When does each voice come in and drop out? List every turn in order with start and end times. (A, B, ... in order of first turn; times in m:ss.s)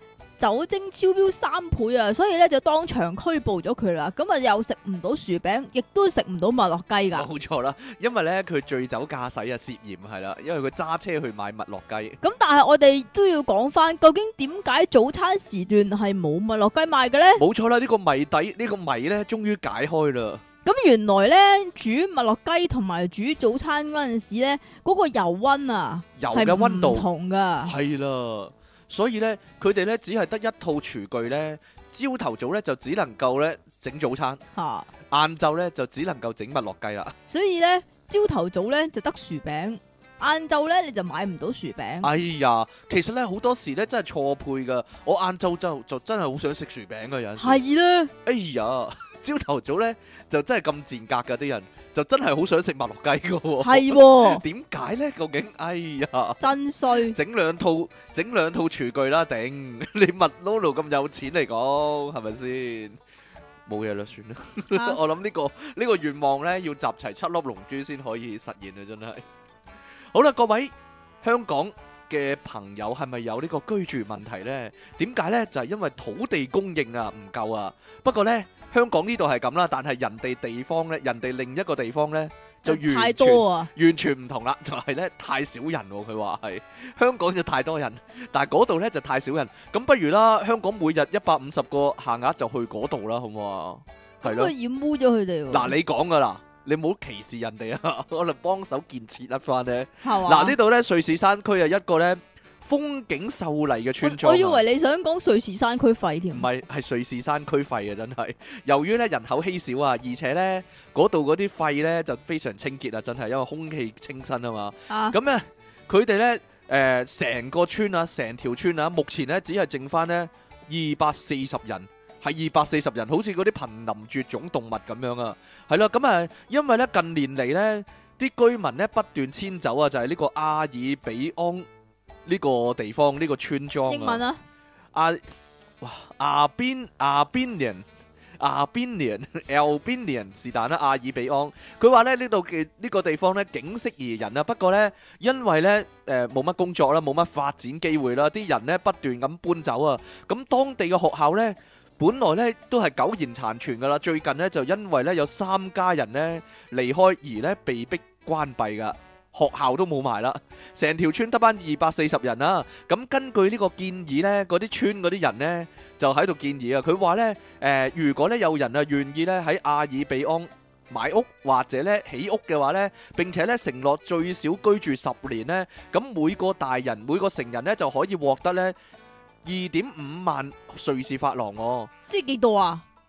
0:00.4-0:07.3 A
0:07.1-0:12.2 B
0:12.2-0:17.4 A
0:17.4-0:20.4 B
0:20.6-0:27.8 A
0:26.2-0:27.1 B
0:27.6-0:34.4 B
0:34.6-0:34.9 A
0:35.1-0:37.2 B
0:37.3-0:42.1 A
0:42.0-0:47.6 B
0:47.4-0:48.1 A
0:48.2-0:56.4 B
0:53.6-0:54.4 A
0:56.4-0:57.2 A
0:57.1-1:03.0 B
1:03.7-1:09.2 B
1:04.7-1:05.0 A
1:10.1-1:34.5 B
1:22.7-1:23.7 A
1:34.2-1:35.8 A
1:35.5-1:44.6 B
1:40.0-1:40.6 A
1:44.0-1:46.5 A
1:46.3-2:11.7 B
1:54.9-1:55.2 A
2:12.3-2:14.2 B
2:13.9-2:14.4 A
2:14.9-2:15.2 B
2:15.8-2:17.8 B
2:18.4-2:58.8 B
2:59.4-3:01.9 B
3:02.1-3:02.8 A